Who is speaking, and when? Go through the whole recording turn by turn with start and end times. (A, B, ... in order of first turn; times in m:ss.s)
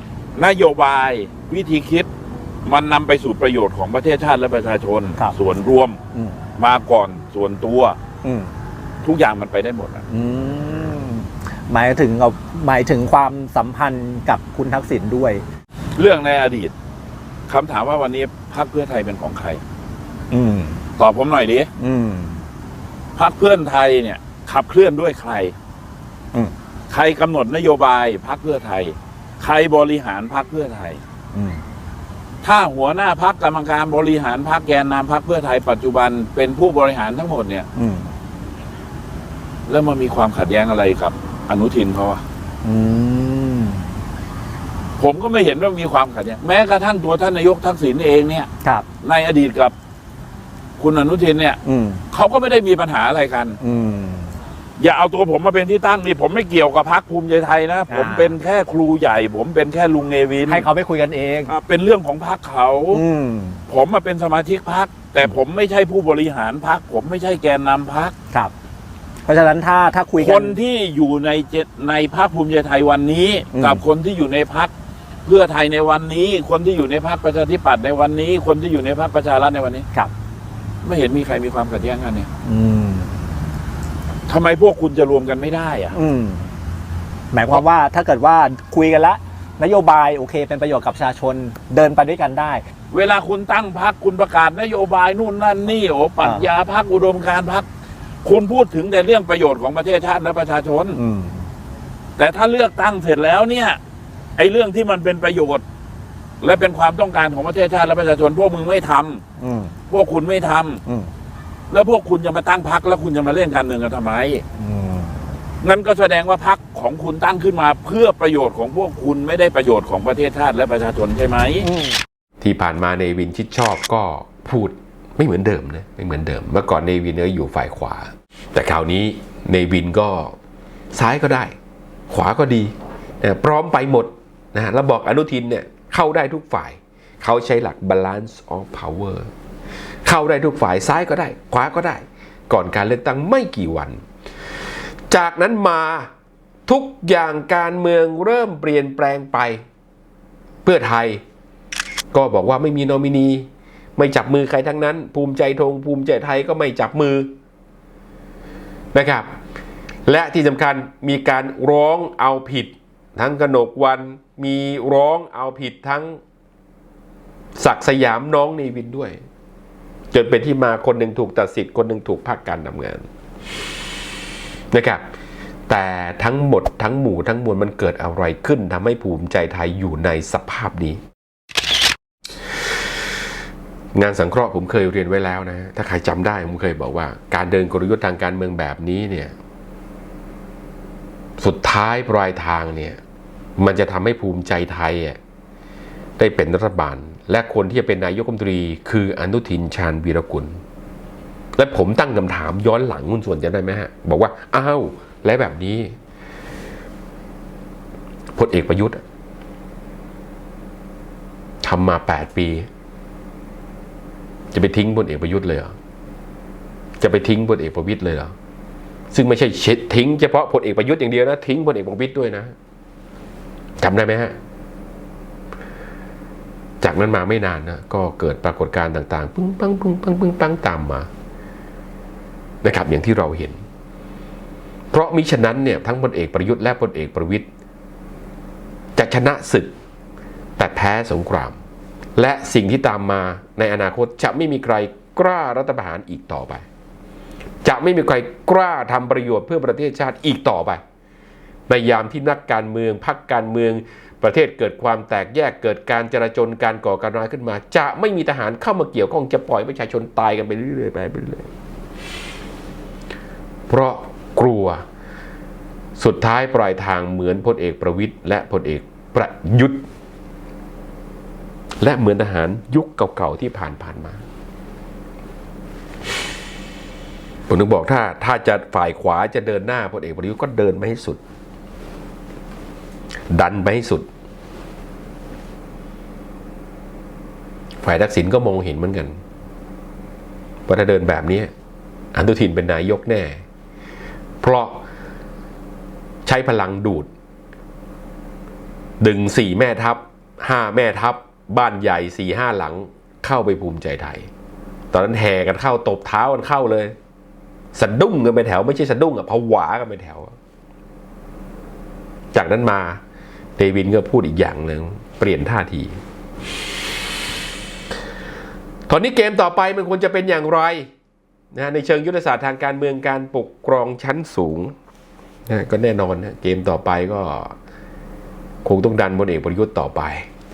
0:00.4-0:02.1 A
0:02.7-0:06.0 A
0:06.6-0:08.0 A
0:08.2-0:08.5 B
0:09.0-0:10.0 A
0:10.1-0:15.4 B
0:16.0-0:16.7 A
0:17.5-0:19.6 A
0:20.3-0:20.8 B
0:21.0-0:21.7 A
0:21.8-0:22.5 B
0:23.2-0:25.6 A
0:26.9-0:31.0 A
0:31.3-0:31.6 B
0:32.4-0:37.7 A
0:37.8-0:38.1 B
0:39.7-0:42.2 A
0:42.6-0:43.9 B
0:45.0-0:48.5 A
0:49.0-0:49.8 A
0:50.8-0:51.6 A
0:51.7-0:52.0 B
0:52.1-0:53.6 A
0:53.6-0:54.4 B
0:54.8-1:00.7 A
0:57.9-0:58.3 B
1:00.5-1:01.5 B
1:01.5-1:03.0 A
1:02.9-1:03.6 B
1:03.7-1:08.2 A
1:09.3-1:10.6 B
1:10.2-1:14.7 A
1:13.6-1:13.8 B
1:15.2-1:19.9 A
1:20.8-1:22.3 A
1:22.4-1:23.2 B
1:24.3-1:26.0 A
1:25.9-1:26.5 B
1:27.3-1:32.6 B
1:32.9-1:37.7 A
1:38.2-1:41.0 A
1:41.0-1:41.5 B
1:42.2-1:43.8 A
1:44.4-1:45.6 A
1:46.4-1:49.2 A
1:49.4-1:49.8 B
1:49.9-1:50.8 A
1:51.7-1:54.4 A
1:54.6-1:55.2 B
1:55.6-2:01.7 A
2:02.4-2:10.4 C
2:10.9-2:11.5 C
2:12.1-2:19.3 C
2:20.0-2:24.0 C
2:25.1-2:26.1 C
2:26.7-2:29.6 C
2:30.6-2:31.2 C
2:32.1-2:37.3 C
2:38.9-2:39.3 C
2:40.1-2:46.2 C
2:47.6-2:49.2 C
2:50.1-2:53.0 C
2:54.7-2:55.0 C
2:55.7-3:01.0 C
3:04.0-3:09.3 C
3:11.4-3:13.0 C
3:13.6-3:15.2 C
3:16.2-3:20.6 C
3:21.6-3:25.9 C
3:28.3-3:29.0 C
3:31.6-3:32.7 C
3:34.5-3:35.7 C
3:37.0-3:38.3 C
3:39.1-3:42.5 C
3:43.8-3:44.4 C
3:46.8-3:51.1 C
3:52.6-3:53.6 C
3:54.9-3:57.5 C
3:59.0-3:59.7 C
4:00.6-4:01.6 C
4:02.2-4:06.6 C
4:07.6-4:10.8 C
4:11.7-4:21.5 C
4:23.7-4:24.8 C
4:26.0-4:29.8 C
4:31.8-4:34.2 C
4:37.5-4:41.2 C
4:43.3-4:44.1 C
4:47.8-4:49.2 C
4:50.7-4:51.5 C
4:52.1-4:53.4 C
4:54.4-4:54.8 C
4:56.2-4:57.1 C
4:59.0-5:04.3 C
5:04.9-5:07.0 C
5:07.7-5:10.4 C
5:12.3-5:13.0 C
5:13.6-5:16.0 C
5:18.9-5:20.9 C
5:21.5-5:24.7 C
5:25.5-5:27.5 C
5:28.6-5:30.3 C